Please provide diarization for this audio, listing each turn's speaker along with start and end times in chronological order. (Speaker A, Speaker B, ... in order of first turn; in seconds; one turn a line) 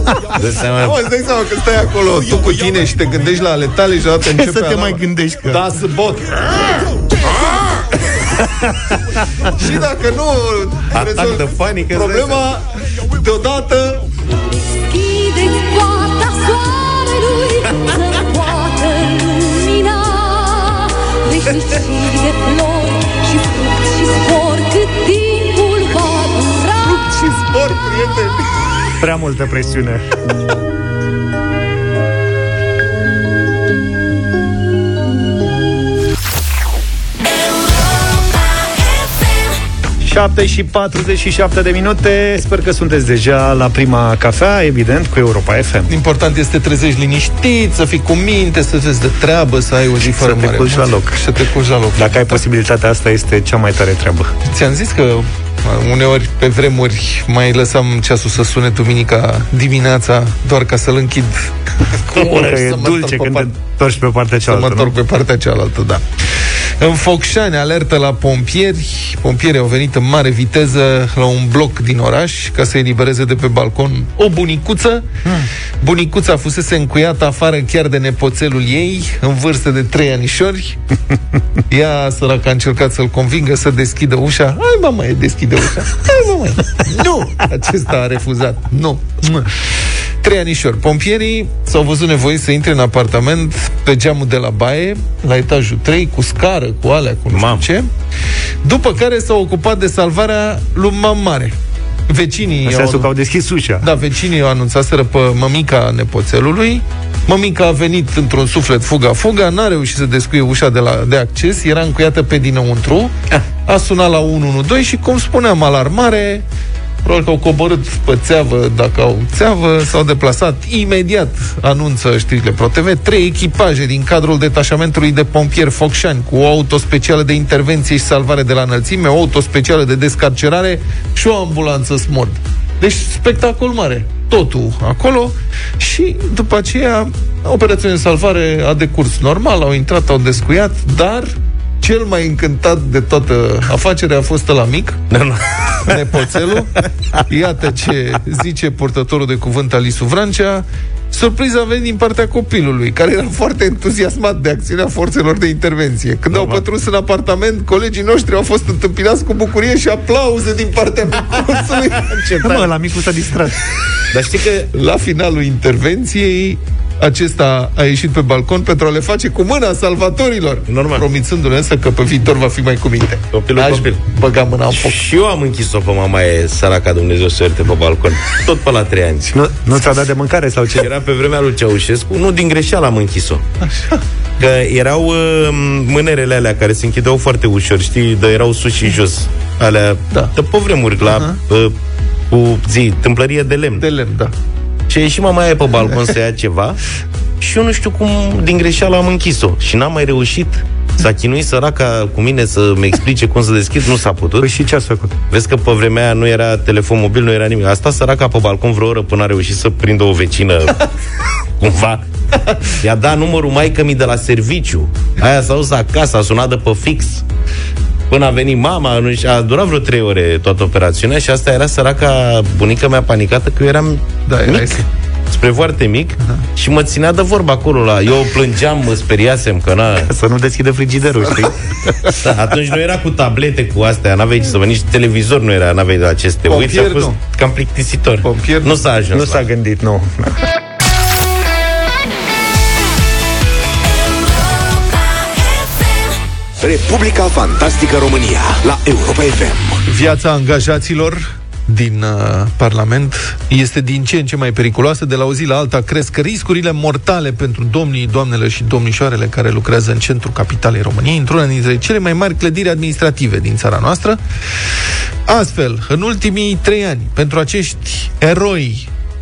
Speaker A: 0.4-1.0
Speaker B: 0.8-6.8
Speaker C: 4.3-5.6
Speaker B: 9.6-14.1
Speaker A: 10.9-12.5
Speaker D: 14.9-27.1
Speaker B: 26.8-28.7
Speaker C: 29.0-30.2
Speaker C: 40.0-45.9
Speaker B: 45.9-52.4
Speaker C: 50.0-51.2
Speaker C: 52.0-54.3
Speaker B: 54.5-63.5
Speaker C: 62.1-65.0
Speaker B: 64.5-75.2
Speaker B: 75.8-80.8
Speaker B: 81.7-97.9
Speaker A: 97.3-97.7
Speaker B: 98.6-101.6
Speaker B: 102.1-103.1
Speaker C: 102.7-103.9
Speaker B: 103.8-116.5
Speaker B: 117.0-141.3
Speaker B: 141.8-145.0
Speaker A: 145.1-146.0
Speaker B: 145.9-162.2
Speaker A: 156.3-156.6
Speaker A: 161.9-162.7
Speaker C: 162.4-163.6
Speaker A: 164.1-164.7
Speaker B: 164.7-175.0
Speaker A: 170.7-171.1
Speaker A: 173.3-174.0
Speaker A: 174.7-179.3
Speaker C: 179.3-180.9
Speaker A: 180.8-183.4
Speaker B: 183.6-184.0
Speaker A: 184.4-191.7
Speaker B: 191.1-191.4
Speaker A: 192.3-193.9
Speaker B: 193.8-194.3
Speaker A: 194.9-196.8
Speaker A: 197.4-204.5
Speaker C: 204.4-205.1
Speaker A: 205.3-210.9
Speaker A: 211.6-212.0
Speaker A: 212.7-217.2
Speaker A: 218.1-230.1
Speaker B: 224.3-224.8
Speaker C: 230.0-232.2
Speaker A: 232.1-239.5
Speaker B: 236.5-237.2
Speaker B: 238.2-238.8
Speaker C: 239.1-240.4
Speaker E: 246.6-249.8
Speaker B: 249.9-264.2
Speaker B: 265.3-268.9